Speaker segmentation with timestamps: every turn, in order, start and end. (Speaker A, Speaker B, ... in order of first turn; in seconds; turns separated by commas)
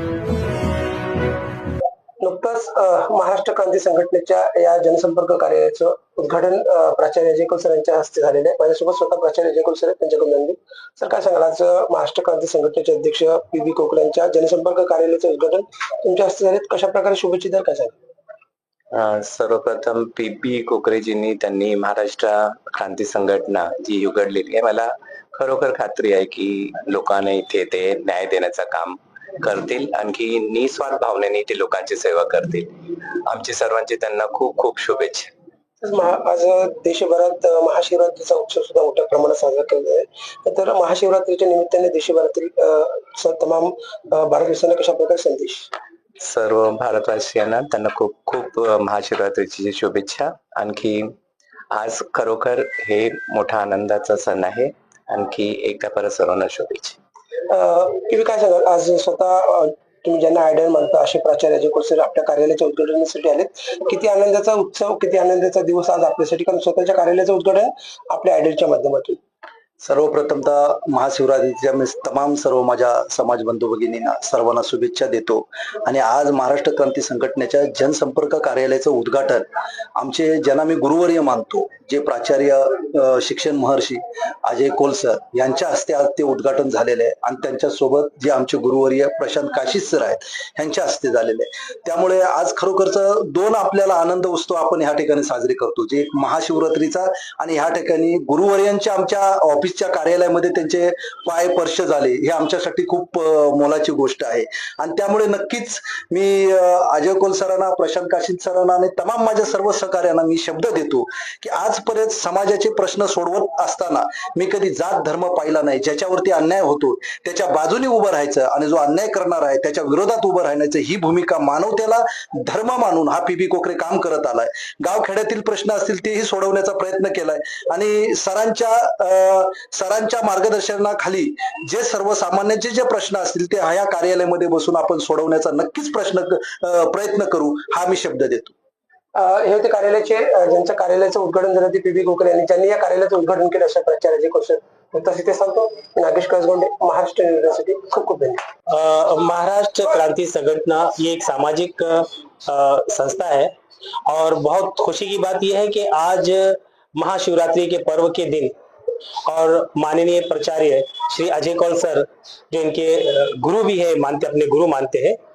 Speaker A: 2.2-17.9, Speaker B: 18.9-35.3, Speaker A: 35.8-45.7, Speaker B: 46.2-51.1, Speaker B: 51.7-57.0, Speaker A: 57.5-69.2, Speaker C: 69.8-138.5, Speaker A: 139.2-148.4, Speaker D: 148.7-153.5, Speaker D: 154.1-158.5, Speaker D: 159.3-165.2